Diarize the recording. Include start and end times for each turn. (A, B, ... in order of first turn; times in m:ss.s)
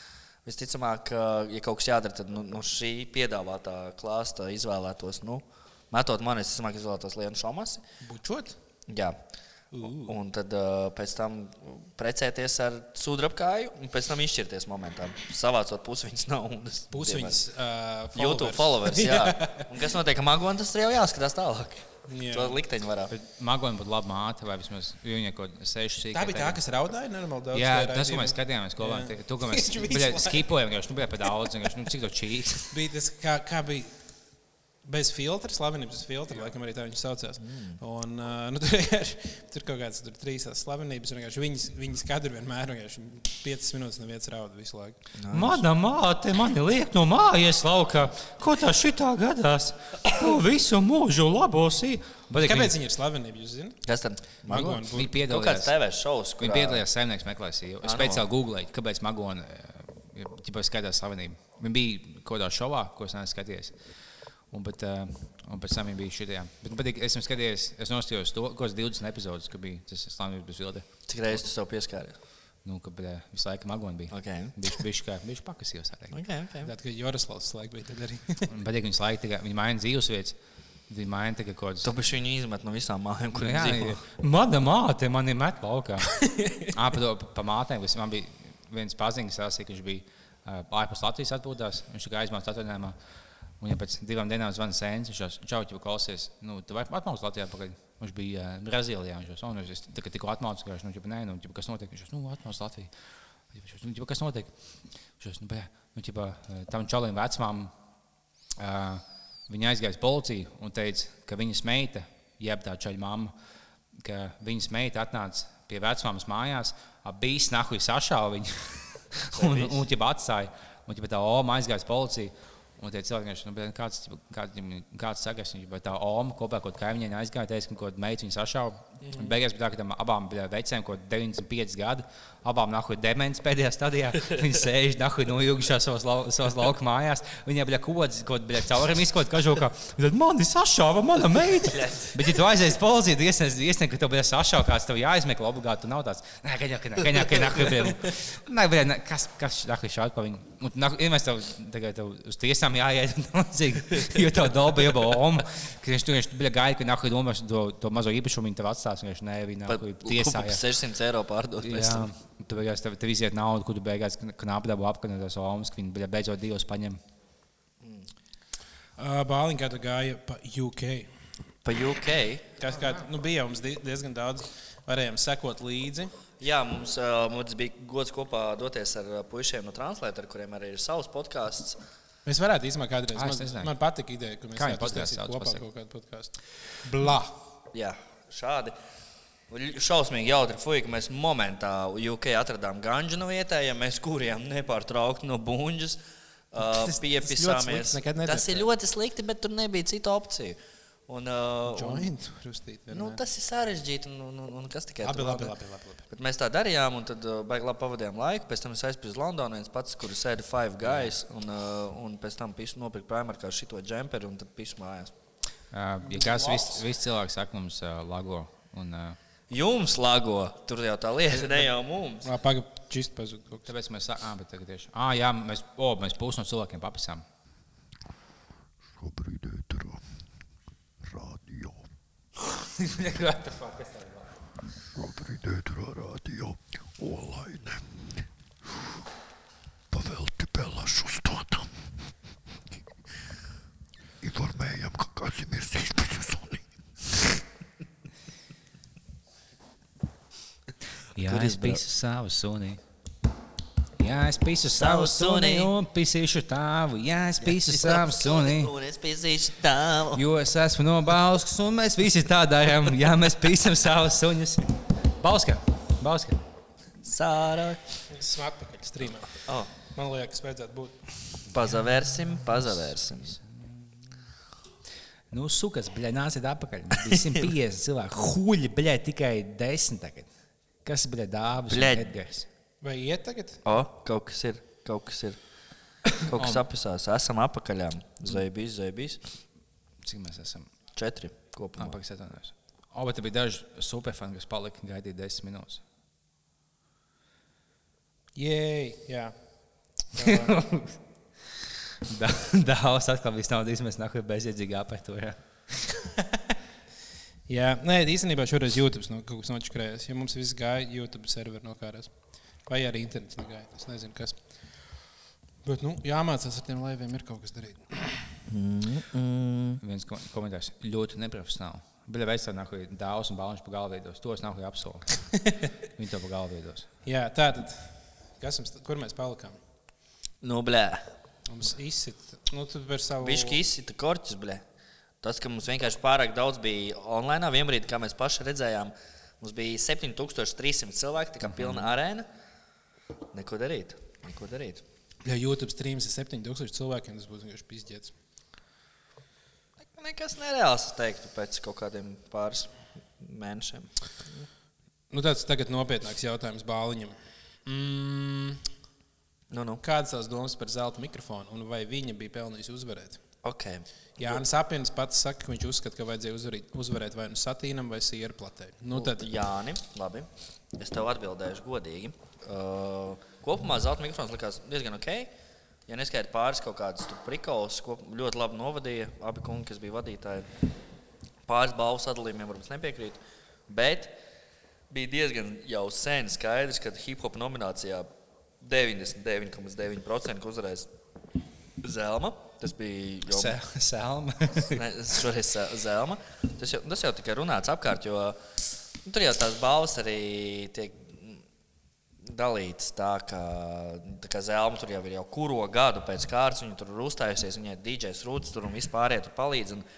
0:00.4-0:07.8 A
0:08.0-0:08.6 B
0:08.9-0:09.2 A
0:09.7-0:10.1 B
0:09.9-0:17.4 A
0:16.9-0:19.7 B
0:18.2-0:23.1 A
0:22.1-0:22.6 B
0:23.1-0:26.6 C
0:26.1-0:30.5 B
0:27.5-0:32.8 C
0:32.7-0:34.0 B
0:34.8-0:45.0 B
0:37.4-0:37.8 A
0:45.2-0:45.6 A
0:45.3-0:52.8 C
0:52.4-0:53.8 B
0:53.8-0:56.8 A
0:54.4-0:55.1 B
0:54.8-0:55.7 C
0:56.4-1:03.8 C
0:57.8-0:58.3 A
1:04.5-1:10.9 C
1:11.1-1:12.2 A
1:12.6-1:16.2 C
1:14.1-1:14.8 A
1:16.1-1:16.7 A
1:16.6-1:18.5 B
1:18.5-1:20.4 C
1:20.9-1:21.9 C
1:21.8-1:24.0 A
1:23.3-1:33.0 C
1:26.2-1:26.7 B
1:33.6-1:42.9 C
1:43.5-1:44.5 C
1:45.2-1:47.7 C
1:48.6-1:53.3 C
1:54.0-2:40.6 C
1:59.3-1:59.8 A
2:21.7-2:22.2 A
2:39.7-2:42.1 A
2:41.6-2:47.0 C
2:47.8-2:48.1 A
2:49.0-2:51.1 B
2:51.6-2:52.5 A
2:52.6-2:56.1 B
2:56.4-3:01.8 A
3:02.3-3:07.4 B
3:03.1-3:03.7 C
3:04.6-3:05.6 C
3:07.7-3:08.8 A
3:09.5-3:16.0 A
3:16.5-3:20.6 A
3:16.6-3:18.7 B
3:21.1-3:22.1 A
3:21.7-3:23.2 B
3:22.9-3:25.6 A
3:25.0-3:26.0 B
3:26.1-3:35.1 A
3:35.7-3:39.2 C
3:36.1-3:36.8 B
3:39.5-3:42.3 A
3:42.2-3:43.7 B
3:43.7-3:47.2 C
3:49.0-3:50.0 D
3:51.0-3:51.8 D
3:52.5-3:54.4 C
3:54.9-3:58.2 D
3:59.9-4:01.8 D
4:04.2-4:07.4 D
4:11.2-4:12.8 C
4:11.2-4:11.8 A
4:14.0-4:18.7 C
4:14.7-4:15.7 A
4:17.5-4:20.2 A
4:20.1-4:26.4 C
4:27.0-4:28.0 A
4:28.1-4:31.0 B
4:29.4-4:29.7 A
4:31.5-4:33.3 A
4:33.1-4:34.1 C
4:35.3-4:40.3 C
4:37.0-4:37.5 A
4:40.8-4:42.5 C
4:41.7-4:42.1 A
4:42.8-4:43.6 B
4:43.6-4:45.4 A
4:46.2-4:49.2 A
4:46.3-4:46.6 C
4:50.0-4:50.7 C
4:51.0-4:52.0 A
4:51.8-4:55.8 C
4:58.4-4:59.4 B
5:00.1-5:00.6 B
5:00.2-5:01.0 C
5:02.0-5:06.0 C
5:07.5-5:12.1 B
5:12.7-5:14.4 B
5:15.6-5:18.3 B
5:18.5-5:19.8 A
5:19.8-5:25.4 C
5:26.0-5:26.9 C
5:27.0-5:29.6 B
5:30.4-5:31.1 A
5:31.5-5:33.6 B
5:33.2-5:34.6 A
5:35.2-5:42.3 A
5:41.5-5:41.9 C
5:43.3-5:44.8 A
5:45.2-5:48.1 B
5:49.9-5:54.5 A
5:55.1-5:58.6 B
5:59.5-5:59.8 A
5:59.8-6:03.2 B
6:03.4-6:04.4 A
6:04.2-6:09.3 B
6:08.9-6:15.3 A
6:15.9-6:20.5 A
6:21.5-6:24.1 A
6:24.9-6:28.1 A
6:28.6-6:30.9 A
6:31.8-6:33.6 A
6:33.3-6:34.8 C
6:34.7-6:38.4 A
6:39.0-6:41.4 A
6:42.2-6:49.9 A